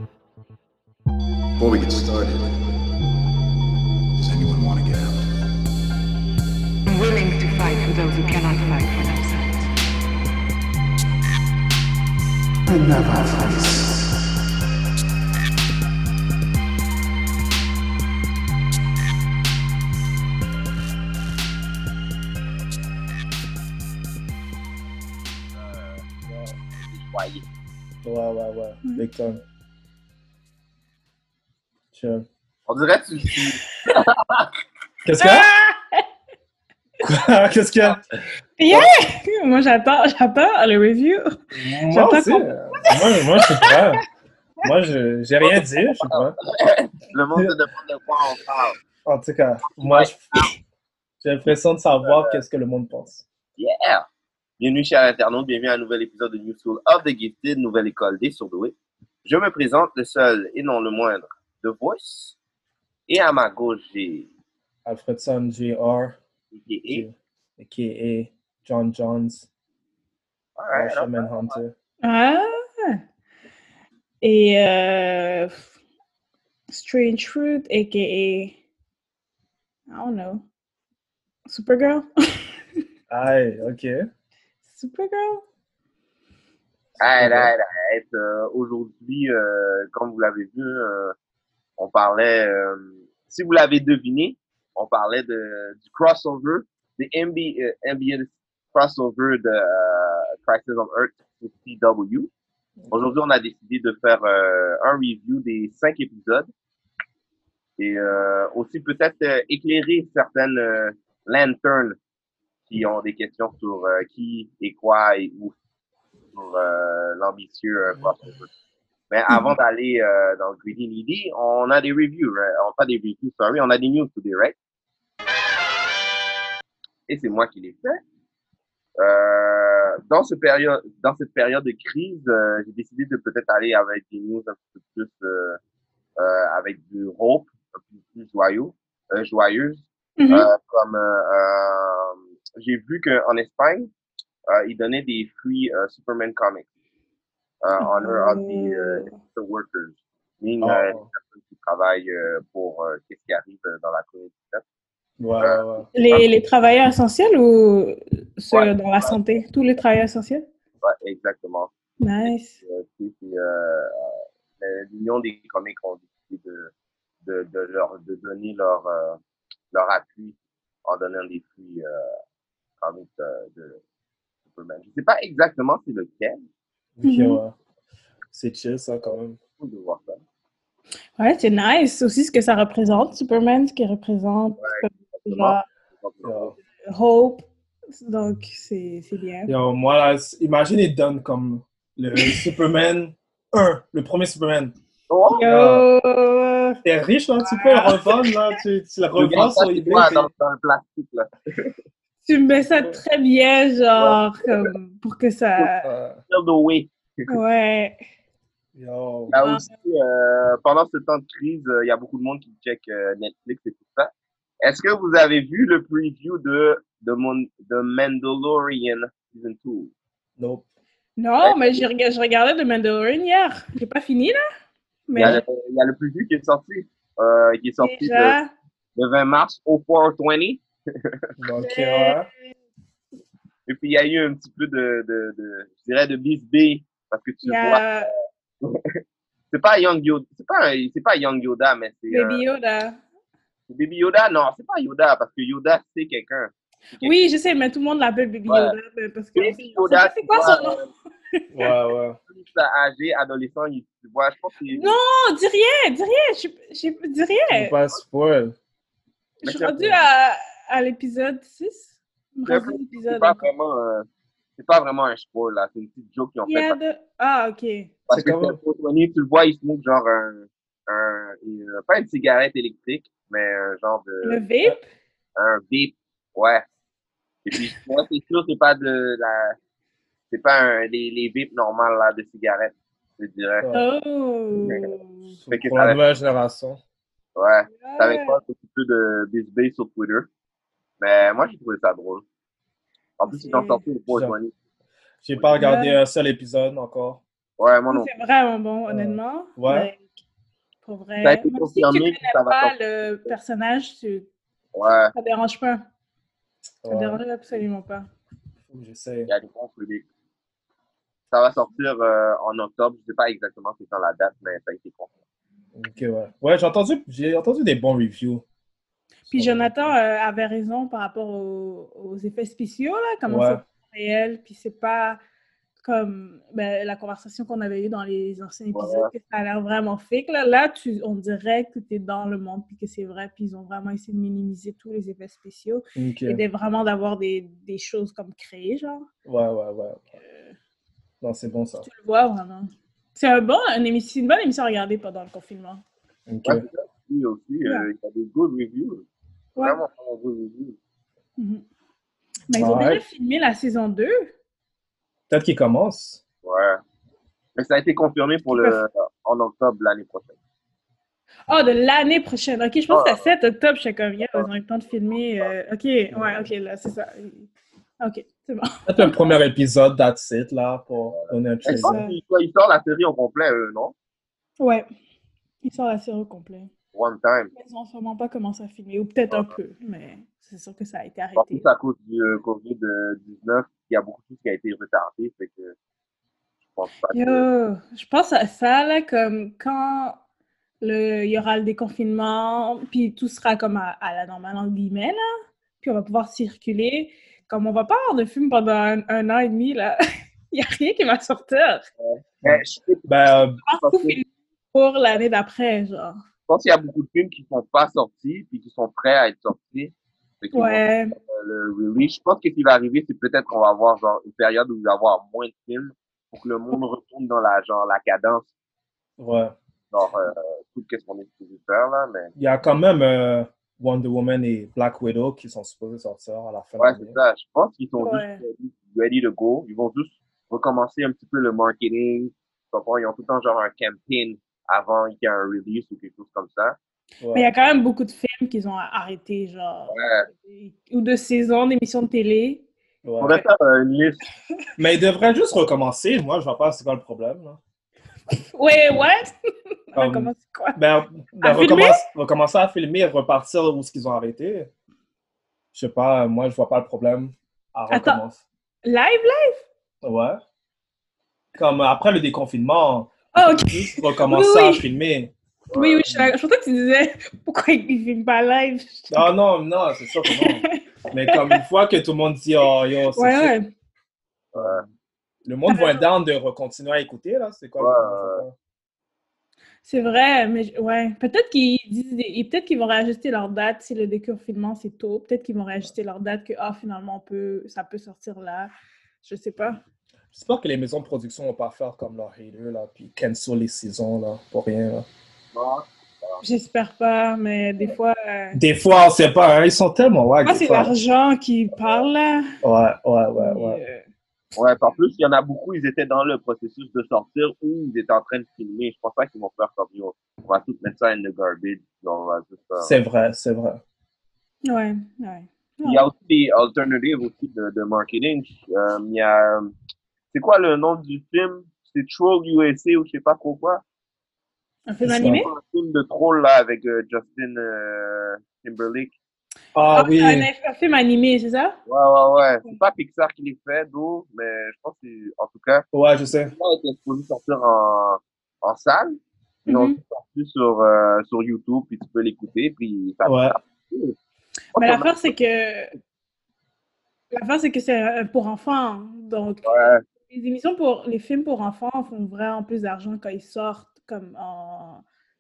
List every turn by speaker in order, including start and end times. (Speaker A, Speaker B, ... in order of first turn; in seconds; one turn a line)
Speaker A: 1.6-2.5
Speaker A: 4.2-5.2
Speaker B: 6.8-9.7
Speaker A: 12.7-14.1
Speaker C: 25.5-27.4
Speaker D: 28.0-29.4
Speaker D: 31.9-32.3
Speaker C: 32.7-34.5
Speaker D: 35.0-35.5
Speaker E: 35.2-36.0
Speaker D: 37.0-38.0
Speaker E: 38.6-41.3
Speaker D: 41.5-44.0
Speaker E: 41.9-43.8
Speaker D: 44.6-46.4
Speaker C: 45.4-48.8
Speaker D: 49.0-50.2
Speaker C: 49.8-50.5
Speaker D: 51.2-53.2
Speaker C: 52.0-52.4
Speaker C: 53.6-54.0
Speaker C: 54.6-58.7
Speaker C: 59.2-62.4
Speaker C: 63.1-64.3
Speaker D: 64.8-66.2
Speaker C: 66.5-67.0
Speaker D: 66.9-69.5
Speaker C: 70.6-71.5
Speaker D: 70.7-71.7
Speaker E: 72.0-73.0
Speaker E: 74.2-75.7
Speaker E: 76.7-78.6
Speaker E: 79.9-80.4
Speaker E: 81.5-82.0
Speaker D: 83.1-84.0
Speaker E: 84.7-85.4
Speaker D: 87.0-87.5
Speaker C: 87.0-91.1
Speaker C: 91.8-102.3
Speaker D: 102.8-103.1
Speaker C: 102.9-106.5
Speaker C: 107.8-112.0
Speaker C: 112.7-115.5
Speaker C: 116.3-118.5
Speaker C: 119.1-124.5
Speaker C: 127.1-128.0
Speaker C: 129.0-135.6
Speaker C: 136.2-143.9
Speaker E: 140.2-140.5
Speaker C: 144.5-146.6
Speaker C: 147.6-154.6
Speaker E: 147.8-149.2
Speaker D: 150.6-151.1
Speaker D: 155.2-155.9
Speaker C: 155.4-156.2
Speaker E: 155.9-160.4
Speaker C: 158.5-159.4
Speaker C: 160.8-161.7
Speaker E: 162.0-162.6
Speaker C: 162.2-166.7
Speaker C: 167.2-169.2
Speaker C: 169.7-170.3
Speaker C: 170.8-172.1
Speaker C: 172.8-173.8
Speaker C: 174.5-176.4
Speaker D: 177.0-177.5
Speaker E: 177.0-177.4
Speaker D: 178.3-179.4
Speaker C: 179.6-180.2
Speaker E: 181.2-185.6
Speaker C: 184.6-186.5
Speaker D: 186.2-186.5
Speaker E: 186.9-189.5
Speaker D: 189.5-194.8
Speaker E: 192.2-192.4
Speaker C: 195.1-195.4
Speaker E: 195.3-196.8
Speaker D: 195.4-195.8
Speaker D: 196.8-200.3
Speaker E: 197.4-198.6
Speaker C: 199.2-201.7
Speaker E: 202.2-205.9
Speaker D: 205.8-206.2
Speaker C: 206.3-207.4
Speaker E: 207.3-208.0
Speaker D: 208.7-209.3
Speaker C: 209.3-214.1
Speaker E: 209.3-209.7
Speaker C: 214.6-219.9
Speaker D: 220.4-220.7
Speaker E: 221.2-224.4
Speaker C: 221.4-221.8
Speaker E: 225.1-225.4
Speaker D: 225.1-225.4
Speaker C: 225.2-228.3
Speaker E: 227.8-228.5
Speaker C: 228.9-231.1
Speaker D: 231.4-232.3
Speaker E: 231.6-232.2
Speaker C: 233.7-238.8
Speaker E: 237.4-238.1
Speaker C: 239.5-242.4
Speaker E: 242.1-243.0
Speaker C: 243.7-247.1
Speaker E: 247.0-250.8
Speaker C: 248.5-248.7
Speaker C: 249.3-250.9
Speaker D: 251.5-252.2
Speaker C: 252.3-255.0
Speaker E: 254.7-257.7
Speaker D: 257.5-258.6
Speaker E: 259.4-263.4
Speaker C: 259.4-259.9
Speaker C: 262.5-266.8
Speaker E: 266.4-267.9
Speaker C: 268.1-274.4
Speaker D: 268.1-268.6
Speaker E: 274.2-274.8
Speaker C: 275.4-276.6
Speaker C: 277.4-279.6
Speaker C: 280.3-283.7
Speaker D: 283.6-283.9
Speaker E: 283.7-285.3
Speaker D: 285.3-286.8
Speaker C: 285.5-286.0
Speaker C: 287.4-290.3
Speaker E: 287.7-288.4
Speaker C: 291.0-292.2
Speaker C: 293.2-294.5
Speaker E: 293.3-293.8
Speaker D: 294.1-294.3
Speaker D: 295.2-297.2
Speaker E: 295.5-296.0
Speaker C: 297.6-298.1
Speaker E: 297.9-300.0
Speaker D: 298.9-299.9
Speaker E: 300.8-304.2
Speaker C: 301.2-302.7
Speaker C: 304.7-305.1
Speaker E: 305.1-305.8
Speaker D: 306.8-307.2
Speaker E: 306.9-308.1
Speaker D: 308.7-309.3
Speaker C: 309.3-310.0
Speaker C: 311.3-315.1
Speaker D: 315.7-318.4
Speaker E: 319.3-325.2
Speaker D: 319.3-319.9
Speaker D: 323.3-323.6
Speaker E: 325.8-339.1
Speaker C: 328.7-329.1
Speaker D: 335.9-336.4
Speaker D: 339.2-340.0
Speaker E: 340.2-340.5
Speaker D: 341.2-341.9
Speaker E: 341.8-345.8
Speaker D: 346.3-346.6
Speaker C: 346.4-349.1
Speaker C: 349.6-350.8
Speaker E: 351.4-351.6
Speaker E: 352.5-354.3
Speaker D: 352.5-353.0
Speaker D: 355.3-356.2
Speaker C: 356.4-356.8
Speaker C: 357.6-360.3
Speaker E: 358.5-358.8
Speaker E: 361.5-367.5
Speaker C: 362.9-363.3
Speaker D: 366.1-366.4
Speaker E: 368.0-369.1
Speaker D: 368.9-372.0
Speaker C: 371.1-373.9
Speaker E: 371.7-372.1
Speaker E: 374.6-374.8
Speaker E: 375.6-376.7
Speaker C: 376.9-377.5
Speaker E: 377.5-381.7
Speaker C: 381.4-385.7
Speaker C: 386.7-387.4
Speaker E: 387.1-390.2
Speaker E: 390.8-395.2
Speaker E: 395.8-400.0
Speaker E: 400.5-401.8
Speaker C: 402.0-403.1
Speaker D: 402.4-403.6
Speaker E: 403.6-406.2
Speaker C: 403.8-404.2
Speaker C: 406.5-418.5
Speaker E: 410.5-411.1
Speaker D: 419.2-419.5
Speaker C: 419.9-422.3
Speaker D: 422.4-427.1
Speaker C: 426.8-436.8
Speaker E: 428.0-428.4
Speaker D: 437.2-437.5
Speaker E: 437.3-442.6
Speaker C: 439.9-440.3
Speaker D: 443.0-443.4
Speaker C: 443.2-444.2
Speaker D: 444.8-447.6
Speaker E: 448.3-449.3
Speaker E: 449.9-450.8
Speaker D: 449.9-454.7
Speaker E: 451.4-452.0
Speaker D: 455.7-458.4
Speaker E: 457.9-458.2
Speaker E: 458.8-459.6
Speaker D: 460.0-460.4
Speaker D: 461.6-465.3
Speaker E: 463.3-464.9
Speaker C: 465.7-466.1
Speaker E: 465.7-469.3
Speaker D: 469.1-473.5
Speaker E: 470.2-470.7
Speaker E: 471.3-471.6
Speaker E: 473.2-473.7
Speaker C: 474.5-474.8
Speaker D: 474.5-474.9
Speaker D: 475.4-478.5
Speaker E: 475.7-476.1
Speaker C: 477.8-478.4
Speaker E: 479.8-488.7
Speaker E: 489.2-489.8
Speaker D: 490.3-495.1
Speaker C: 495.5-496.4
Speaker E: 496.4-498.6
Speaker D: 498.5-500.9
Speaker E: 500.4-502.5
Speaker D: 502.6-503.8
Speaker E: 503.4-504.0
Speaker C: 504.6-513.0
Speaker D: 512.8-513.8
Speaker E: 514.6-516.0
Speaker C: 515.8-519.7
Speaker C: 520.3-523.8
Speaker E: 524.9-525.5
Speaker D: 525.0-525.4
Speaker C: 525.2-529.1
Speaker D: 529.7-530.5
Speaker E: 529.9-531.8
Speaker C: 531.9-535.8
Speaker D: 535.9-536.5
Speaker C: 536.5-539.1
Speaker E: 539.7-540.0
Speaker C: 539.7-544.1
Speaker D: 543.2-543.5
Speaker C: 544.7-545.3
Speaker E: 544.7-545.9
Speaker E: 547.3-549.7
Speaker C: 549.6-550.0
Speaker E: 550.2-555.0